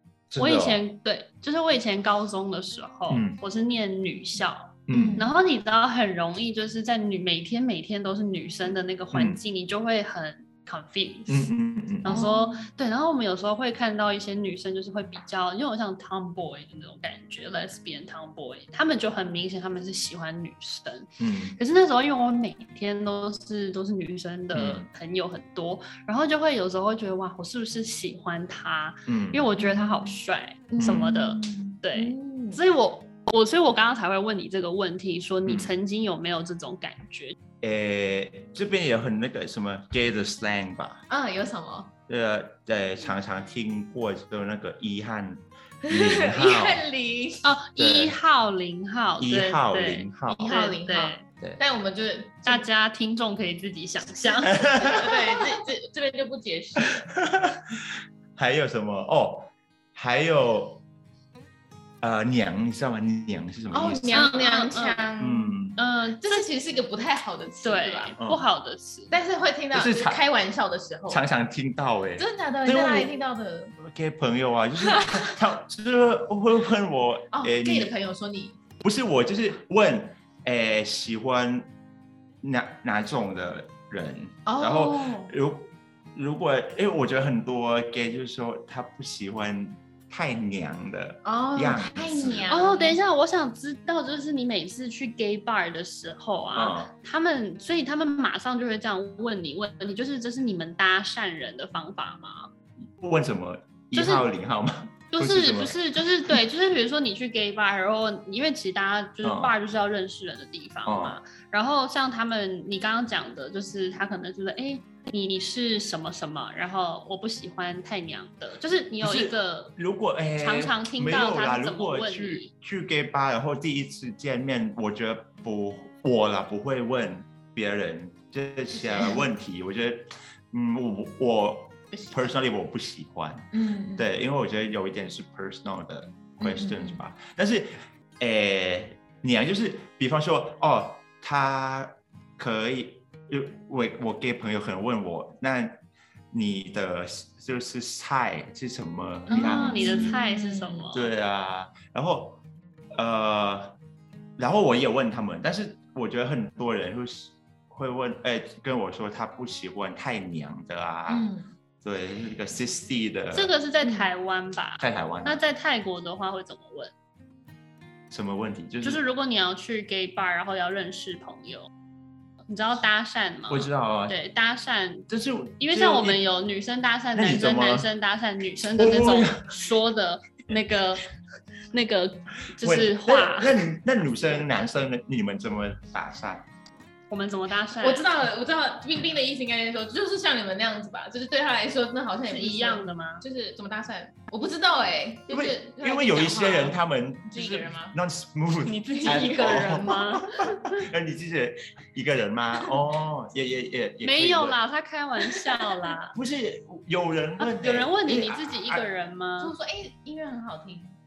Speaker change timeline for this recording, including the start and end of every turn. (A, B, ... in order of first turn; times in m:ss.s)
0:00.3-0:00.8 A
0:00.4-0:37.4 B
0:03.1-0:03.4 A
0:04.9-0:05.2 A
0:04.9-0:05.3 C
0:09.1-0:09.4 A
0:11.3-0:12.3 A
0:12.0-0:12.7 C
0:21.2-0:21.6 A
0:24.5-0:24.9 A
0:29.1-0:29.4 A
0:29.6-0:30.2 C
0:30.7-0:32.6 C
0:30.8-0:31.1 A
0:35.4-0:35.7 A
0:37.6-0:41.0 A
0:41.1-0:41.9 C
0:42.1-0:46.8 A
0:45.8-0:47.5 C
0:47.4-0:51.2 B
0:47.8-0:48.2 A
0:49.2-0:50.6 A
0:50.3-0:52.6 C
0:52.4-0:55.1 B
0:54.2-0:57.1 C
0:54.5-0:55.1 A
0:56.8-1:00.8 A
1:02.0-1:04.2 A
1:03.7-1:05.6 C
1:04.1-1:05.1 B
1:05.2-1:05.8 A
1:05.8-1:06.5 B
1:06.2-1:08.2 C
1:07.6-1:09.2 B
1:08.2-1:08.4 A
1:09.1-1:11.2 C
1:09.7-1:10.2 A
1:11.1-1:13.1 A
1:12.2-1:13.8 C
1:13.8-1:17.9 A
1:14.8-1:15.4 C
1:17.3-1:18.6 C
1:18.8-1:21.7 A
1:22.4-1:32.5 A
1:24.5-1:25.3 C
1:31.2-1:33.0 C
1:32.5-1:42.5 B
1:36.5-1:36.9 A
1:43.0-1:45.8 A
1:43.9-1:44.3 B
1:45.1-1:59.8 B
1:49.2-1:49.5 A
1:50.8-1:51.2 A
1:59.0-2:25.8 A
2:00.4-2:02.5 B
2:08.7-2:09.2 C
2:11.9-2:12.4 C
2:13.5-2:14.1 C
2:16.4-2:17.0 C
2:26.3-2:30.1 A
2:29.3-2:31.0 C
2:29.3-2:31.1 B
2:30.9-2:32.4 A
2:33.0-2:33.8 A
2:34.4-2:41.3 A
2:41.1-2:41.5 C
2:41.8-2:43.5 A
2:43.3-2:46.9 B
2:43.8-2:44.1 C
2:44.8-2:45.4 A
2:48.1-2:49.0 A
2:48.8-2:51.7 B
2:52.5-2:55.1 B
2:53.5-2:54.2 A
2:55.1-2:56.2 A
2:55.6-3:01.0 B
2:57.1-2:57.9 A
2:58.8-2:59.6 A
3:01.7-3:03.7 B
3:02.6-3:06.4 A
3:07.1-3:08.1 B
3:07.8-3:18.0 C
3:12.3-3:13.2 B
3:15.3-3:24.6 A
3:18.6-3:20.7 B
3:18.8-3:20.0 C
3:24.0-3:26.1 B
3:26.1-3:28.8 A
3:27.4-3:29.5 B
3:29.4-3:31.0 C